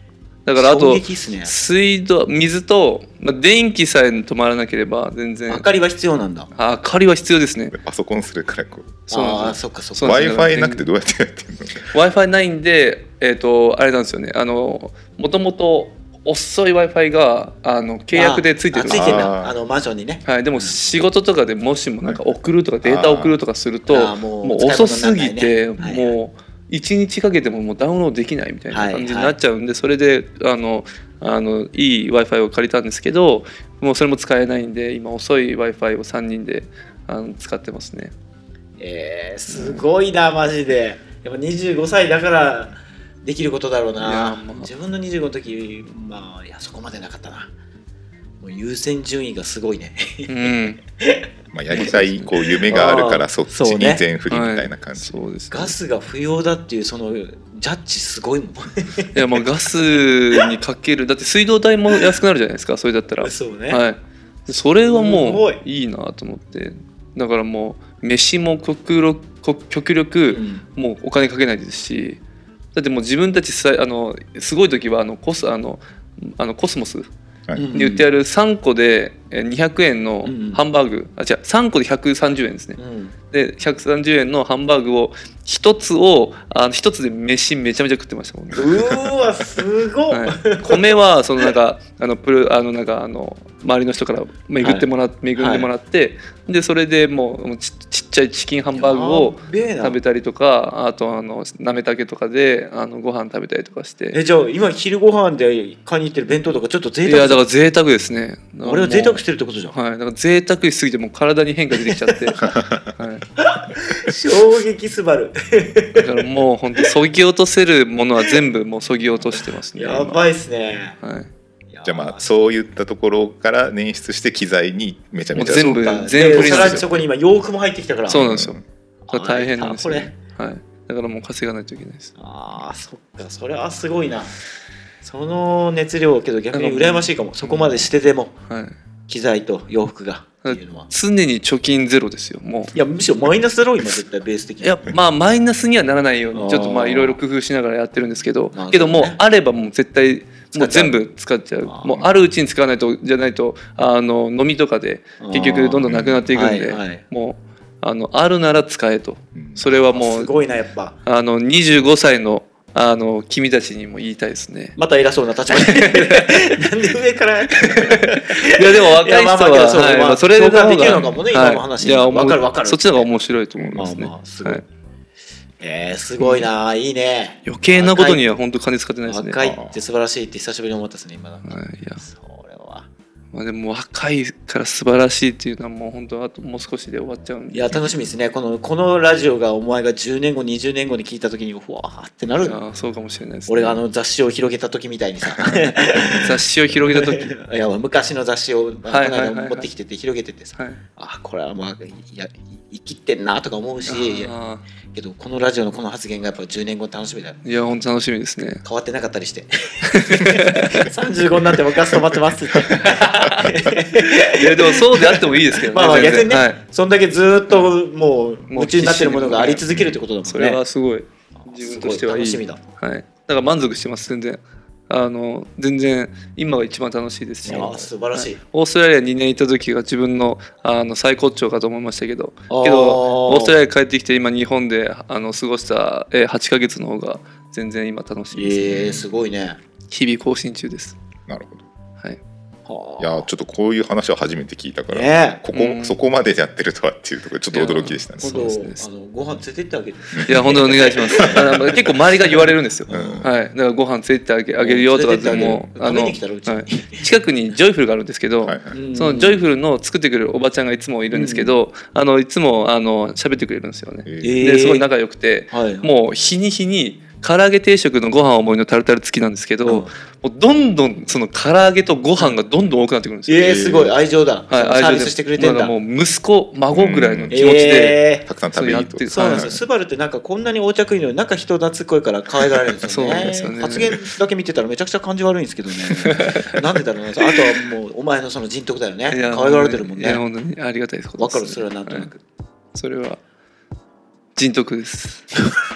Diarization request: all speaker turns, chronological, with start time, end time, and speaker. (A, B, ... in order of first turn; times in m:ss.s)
0:00.5-0:05.7 A
0:00.6-0:01.5 B
0:05.5-0:06.5 B
0:06.6-0:07.7 A
0:07.7-0:09.1 C
0:09.1-0:10.1 B
0:09.1-0:10.8 A
0:10.0-0:11.9 C
0:11.9-0:19.3 A
0:18.1-0:20.8 B
0:18.9-0:19.6 C
0:20.2-0:38.1 A
0:22.8-0:23.4 C
0:23.9-0:26.1 B
0:28.7-0:29.4 B
0:38.8-0:47.5 B
0:39.5-0:39.8 A
0:44.0-0:44.7 A
0:48.4-0:51.2 B
0:50.3-0:50.8 A
0:51.5-0:55.2 C
0:51.7-0:52.3 A
0:52.7-0:54.0 B
0:54.3-0:55.8 A
0:55.5-0:59.4 B
0:59.2-1:12.2 A
1:03.2-1:03.8 B
1:04.8-1:05.6 B
1:10.3-1:10.6 B
1:12.8-1:17.1 A
1:17.6-1:18.1 B
1:17.7-1:22.8 A
1:20.2-1:20.6 B
1:22.8-1:23.1 B
1:23.3-1:29.0 A
1:28.6-1:31.5 B
1:30.1-1:44.2 A
1:34.6-1:35.7 B
1:38.8-1:40.0 B
1:44.1-1:47.4 B
1:47.1-1:53.2 A
1:48.6-1:49.8 B
1:51.9-1:52.5 B
1:52.4-1:52.9 C
1:53.4-1:56.1 B
1:56.0-2:00.2 A
1:59.8-2:01.0 B
2:01.0-2:01.3 A
2:01.7-2:02.3 B
2:01.8-2:07.0 C
2:05.4-2:06.9 A
2:05.6-2:08.4 B
2:08.1-2:12.1 A
2:08.1-2:08.6 C
2:09.1-2:10.1 B
2:12.2-2:14.3 B
2:15.0-2:18.3 B
2:16.5-2:17.9 A
2:18.5-2:18.7 A
2:19.1-2:20.9 B
2:20.4-2:22.8 A
2:22.7-2:24.9 B
2:24.6-2:40.3 A
2:26.3-2:27.2 B
2:28.6-2:29.2 B
2:30.5-2:31.0 B
2:31.7-2:32.0 B
2:35.2-2:37.0 B
2:35.9-2:36.3 C
2:39.4-2:39.6 C
2:39.9-2:41.0 B
2:41.1-2:44.8 A
2:44.8-2:53.1 B
2:45.5-2:46.4 A
2:47.6-2:54.6 A
2:50.8-2:51.2 C
2:53.6-2:53.9 C
2:53.8-2:54.6 B
2:55.6-2:58.3 B
2:56.2-2:56.5 A
2:57.5-2:59.4 A
2:59.1-3:02.9 B
2:59.4-2:59.8 C
3:01.5-3:02.0 A
3:03.3-3:07.8 A
3:07.5-3:12.6 B
3:12.4-3:13.8 A
3:13.5-3:24.3 B
3:15.8-3:17.3 A
3:18.9-3:19.7 A
3:23.9-3:24.6 A
3:24.9-3:27.4 B
3:27.4-3:28.6 A
3:28.6-3:40.6 B
3:29.9-3:30.8 A
3:32.6-3:33.6 C
3:34.3-3:36.6 A
3:38.5-3:39.7 A
3:40.2-3:59.1 A
3:41.4-3:42.6 B
3:47.5-3:48.4 B
3:52.5-3:53.5 B
3:58.3-3:59.6 B
3:59.9-4:01.0 A
4:01.3-4:01.6 C
4:02.7-4:03.3 B
4:03.0-4:08.4 C
4:04.9-4:05.4 B
4:05.5-4:06.0 A
4:07.5-4:08.8 A
4:08.2-4:11.7 B
4:10.1-4:10.6 C
4:10.2-4:33.9 A
4:11.2-4:11.9 C
4:12.9-4:13.3 B
4:12.9-4:13.3 C
4:14.6-4:17.1 B
4:18.4-4:18.7 C
4:18.7-4:19.4 B
4:21.1-4:21.6 B
4:24.1-4:24.3 C
4:24.2-4:24.9 B
4:25.5-4:25.9 B
4:33.3-4:35.7 B
4:34.5-4:39.5 A
4:36.7-4:37.4 C
4:37.3-4:38.3 B
4:38.3-4:39.6 C
4:39.1-4:50.2 B
4:42.9-4:44.0 A
4:45.9-4:46.6 A
4:49.1-4:52.1 A
4:51.2-4:52.2 B
4:52.7-4:53.2 A
4:54.4-4:55.3 A